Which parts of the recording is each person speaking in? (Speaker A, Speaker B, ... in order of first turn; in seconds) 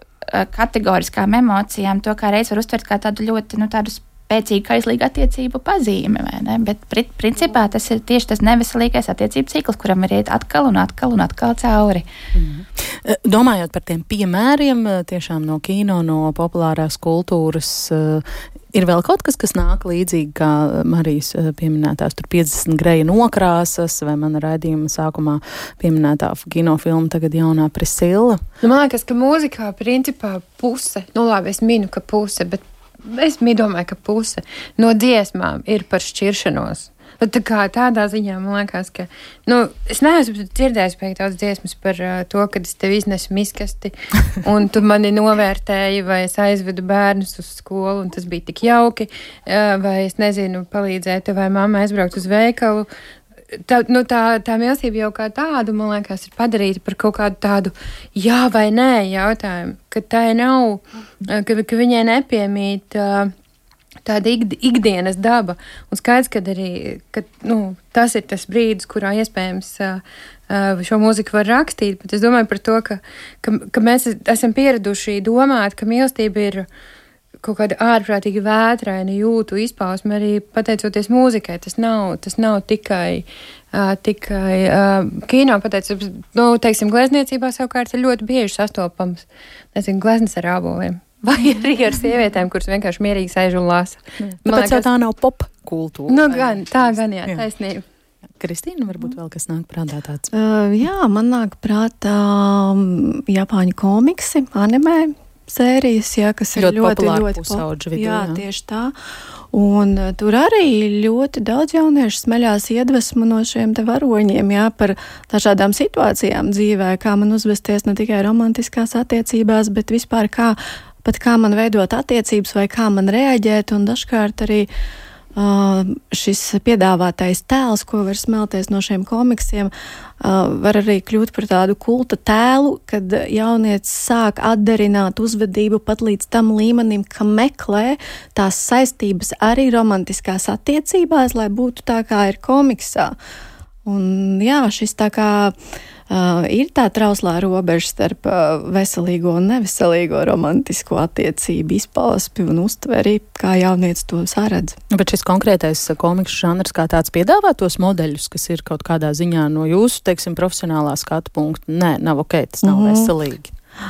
Speaker A: 0.3-12.0
Speaker B: 12.3-28.4, 94.2-97.4, 98.3-100.3, 106.6-108.4, 154.9-163.5
Speaker C: 28.6-52.9, 53.5-63.3, 64.0-76.7, 77.4-94.9, 96.1-97.8
Speaker D: 100.3-108.9, 109.5-124.7, 125.3-143.1, 143.8-145.5, 146.1-154.8, 162.6-163.1